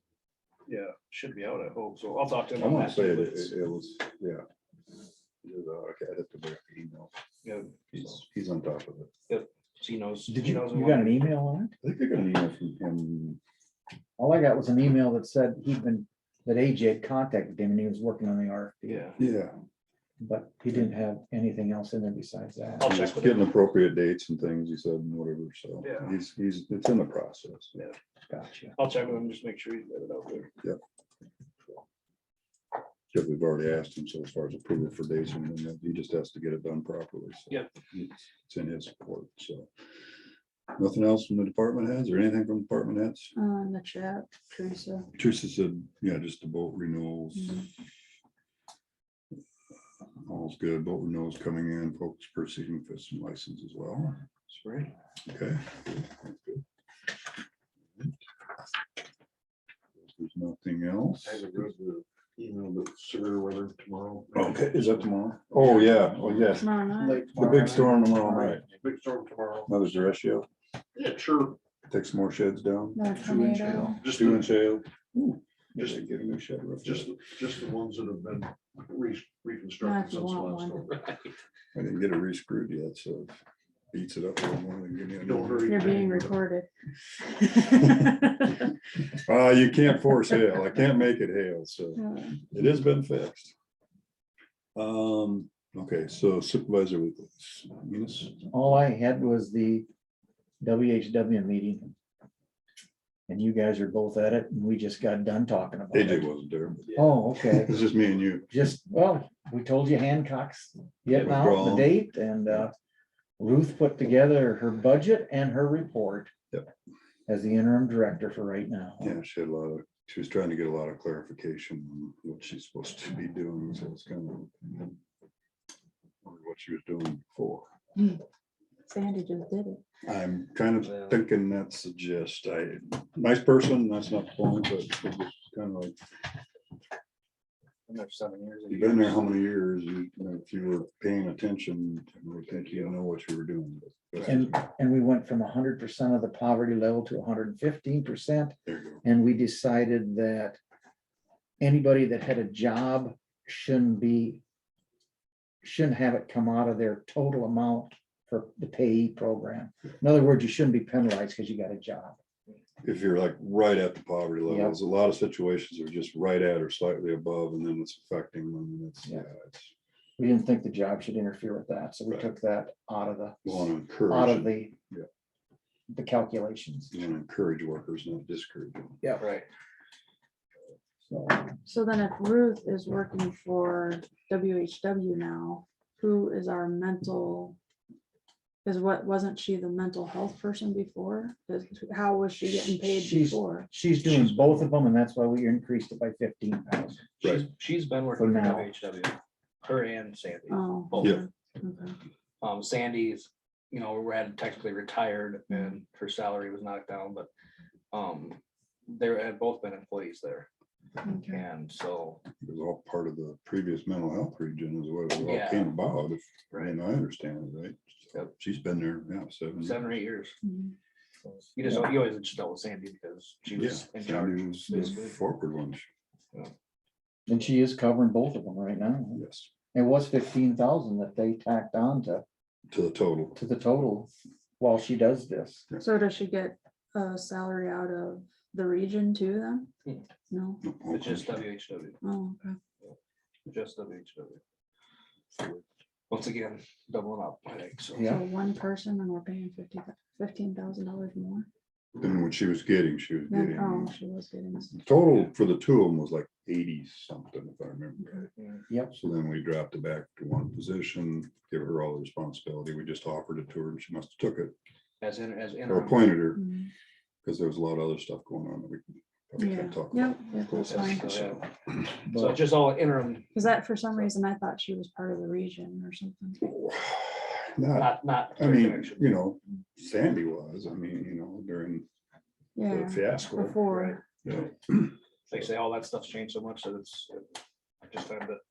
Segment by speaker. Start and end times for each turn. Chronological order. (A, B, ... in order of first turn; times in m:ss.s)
0:00.7-0:03.5 A
0:02.6-0:04.4 B
0:05.4-0:07.1 B
0:07.4-0:08.2 A
0:07.9-0:09.1 B
0:09.3-0:11.3 A
0:10.3-0:11.8 C
0:11.8-0:13.4 B
0:14.2-0:19.1 C
0:18.9-0:19.2 A
0:19.2-0:19.6 B
0:20.2-0:23.0 C
0:22.8-0:23.5 A
0:22.8-0:27.7 B
0:25.8-0:26.1 A
0:28.3-0:28.7 C
0:28.8-0:30.5 A
0:33.1-0:39.7 B
0:40.8-0:43.3 B
0:43.4-0:45.1 D
0:45.2-0:47.7 B
0:47.4-0:47.6 D
0:50.2-0:54.2 B
0:54.5-0:54.9 A
0:55.3-0:56.6 B
1:00.0-1:01.4 B
1:01.2-1:05.1 E
1:04.4-1:08.6 B
1:06.6-1:07.4 D
1:07.0-1:08.6 C
1:07.6-1:07.8 A
1:08.6-1:09.7 E
1:09.7-1:10.5 B
1:11.0-1:11.6 E
1:11.9-1:13.1 B
1:13.0-1:14.0 D
1:13.2-1:14.0 C
1:14.0-1:14.6 E
1:14.1-1:17.2 B
1:16.8-1:21.0 E
1:19.8-1:20.9 D
1:21.7-1:23.4 B
1:23.9-1:25.8 B
1:25.2-1:26.4 E
1:25.7-1:26.7 D
1:27.4-1:28.4 D
1:29.1-1:33.5 B
1:32.0-1:32.4 D
1:34.8-1:38.4 B
1:38.5-1:39.9 C
1:40.6-1:42.0 C
1:43.3-1:46.3 C
1:45.9-1:48.5 B
1:46.9-1:47.9 C
1:48.5-1:52.7 C
1:51.1-1:52.0 B
1:53.4-1:56.3 C
1:57.3-1:59.2 C
1:59.0-2:04.7 B
2:06.2-2:07.7 B
2:08.9-2:09.8 D
2:10.0-2:16.0 B
2:10.8-2:11.2 A
2:17.9-2:19.4 A
2:18.7-2:24.7 B
2:22.4-2:23.0 A
2:24.3-2:30.6 C
2:28.7-2:29.0 B
2:31.6-2:34.4 C
2:35.6-2:42.2 C
2:42.8-2:49.7 B
2:44.5-2:44.8 C
2:50.2-2:54.8 C
2:53.4-2:55.1 B
2:55.9-2:56.9 C
2:56.9-2:59.0 B
2:59.0-2:59.3 C
2:59.2-2:59.5 A
3:01.1-3:01.6 C
3:01.6-3:07.6 D
3:08.6-3:13.7 D
3:12.9-3:17.0 C
3:14.1-3:14.6 A
3:17.2-3:21.2 A
3:18.2-3:18.7 C
3:20.5-3:22.0 D
3:22.4-3:27.3 A
3:27.9-3:30.5 A
3:31.0-3:31.4 D
3:31.3-3:32.2 A
3:32.4-3:40.0 B
3:35.2-3:35.8 A
3:36.5-3:36.8 A
3:39.6-3:40.4 A
3:40.4-3:40.8 D
3:41.6-3:45.2 A
3:43.6-3:45.9 B
3:47.3-3:52.2 C
3:49.2-3:49.5 B
3:52.7-3:53.4 B
3:53.4-3:55.7 C
3:55.8-3:59.7 D
4:00.3-4:00.6 D
4:00.6-4:01.5 B
4:00.9-4:02.0 A
4:02.0-4:02.6 D
4:02.8-4:04.4 A
4:05.4-4:08.1 A
4:08.0-4:08.3 C
4:08.0-4:11.5 D
4:12.0-4:14.0 B
4:13.3-4:14.8 D
4:14.7-4:18.3 B
4:18.4-4:18.6 A
4:18.9-4:24.5 B
4:25.0-4:26.1 A
4:25.7-4:26.5 B
4:26.4-4:26.7 D
4:27.2-4:31.3 B
4:29.4-4:31.2 D
4:30.6-4:34.1 A
4:32.1-4:32.4 C
4:33.3-4:36.5 D
4:36.4-4:41.8 B
4:37.7-4:39.2 A
4:42.6-4:44.0 D
4:42.7-4:43.6 B
4:43.7-4:44.0 A
4:44.2-4:44.9 B
4:45.3-4:47.3 A
4:47.9-4:48.4 A